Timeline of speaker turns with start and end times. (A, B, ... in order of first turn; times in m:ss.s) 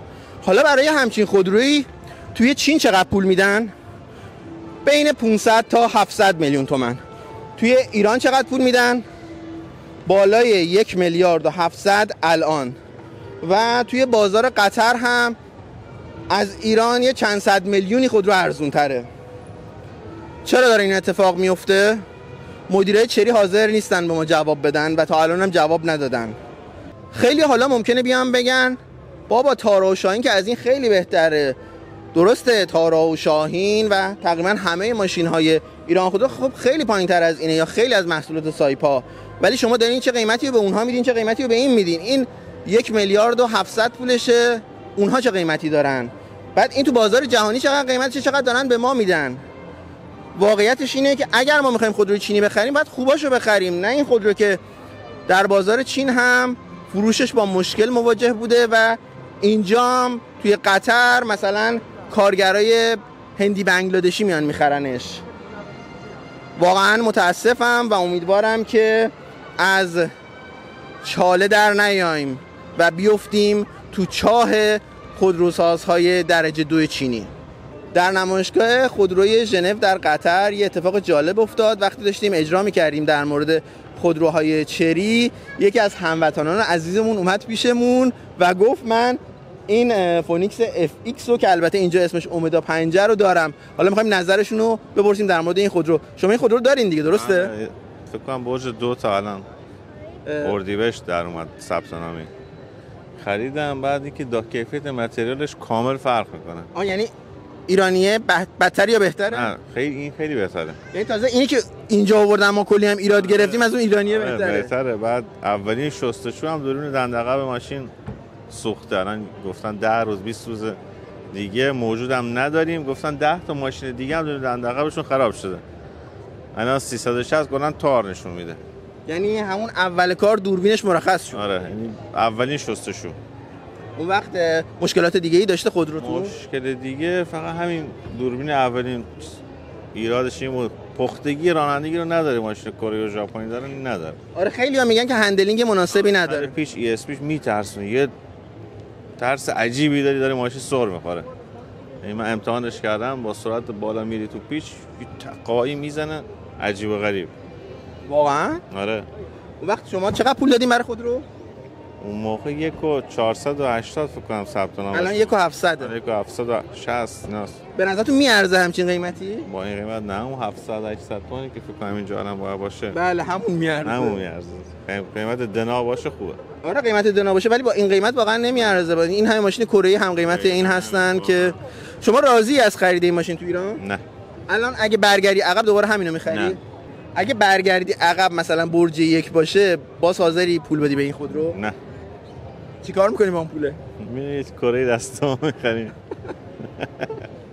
0:00.4-0:03.7 A
0:04.8-0:07.0 A
0:07.6-0:09.0 A
0:10.1-0:12.8 A
0:13.4-0:15.4 A
0:16.3-0:19.1 A
0:20.4-0:22.0 A
0:22.7-0:26.4 A
0:27.1-0:31.6 A
0:32.1-0:49.4 A
0:50.4-0:54.6 A
0:55.3-1:05.2 A
1:06.6-1:10.1 A
1:11.0-1:17.3 A
1:17.9-1:37.5 A
1:37.1-1:39.5 B
1:40.3-1:40.6 A
1:40.4-1:42.3 B
1:43.2-1:46.7 B
1:46.7-1:47.1 A
1:47.7-1:49.5 A
1:49.3-1:50.8 B
1:50.9-1:54.7 A
1:53.2-1:57.9 B
1:58.5-2:00.8 B
2:01.3-2:05.6 B
2:06.6-2:08.6 B
2:09.1-2:11.4 A
2:11.3-2:13.2 B
2:14.0-2:16.3 A
2:16.0-2:19.4 B
2:19.9-2:24.2 B
2:24.4-2:26.5 A
2:25.9-2:28.1 B
2:29.2-2:31.3 B
2:32.0-2:37.3 B
2:38.1-2:38.6 A
2:38.7-2:39.1 B
2:39.6-2:41.2 A
2:42.0-2:47.6 B
2:44.9-2:45.9 A
2:47.8-2:49.5 A
2:49.5-2:53.0 B
2:52.9-2:54.2 A
2:53.8-2:56.4 B
2:56.6-3:03.8 A
3:00.2-3:01.6 B
3:03.8-3:04.0 B
3:04.5-3:06.6 A
3:06.3-3:06.6 B
3:07.2-3:11.6 A
3:11.5-3:11.8 B
3:12.8-3:13.8 A
3:14.0-3:15.9 B
3:16.8-3:17.1 B